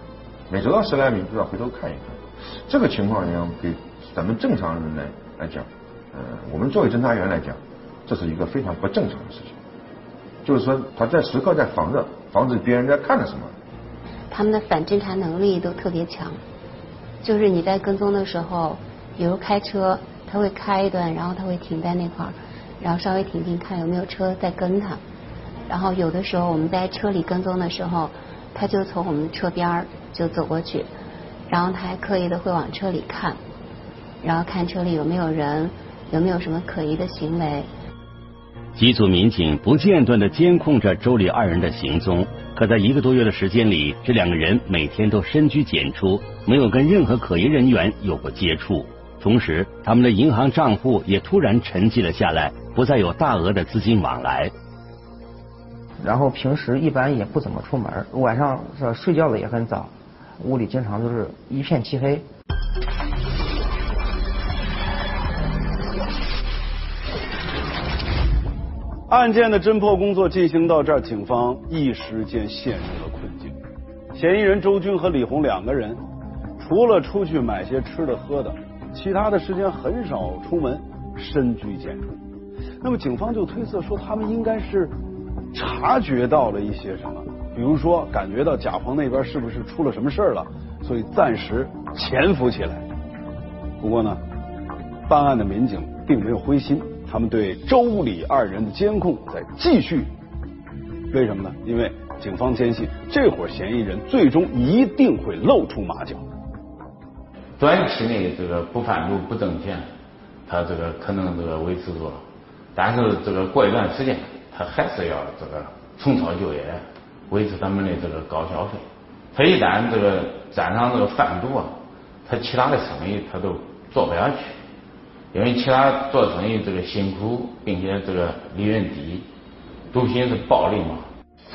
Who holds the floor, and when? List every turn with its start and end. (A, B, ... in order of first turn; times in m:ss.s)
0:00.5-0:09.6 A
0:10.4-0:13.5 A
0:14.3-0:16.4 B
0:17.2-0:25.0 B
0:25.7-0:30.9 B
0:31.5-0:33.4 B
0:34.2-0:37.7 B
0:38.8-0:54.5 C
0:56.0-1:02.3 D
1:09.1-1:13.6 E
1:14.1-1:16.0 E
1:16.6-1:22.1 E
1:22.8-1:25.0 E
1:25.5-1:32.8 E
1:33.8-1:34.2 E
1:35.1-1:40.1 E
1:41.1-1:46.3 E
1:47.6-1:49.9 F
1:50.5-1:52.2 F
1:52.8-2:04.6 F
2:05.3-2:09.3 F
2:09.9-2:11.1 F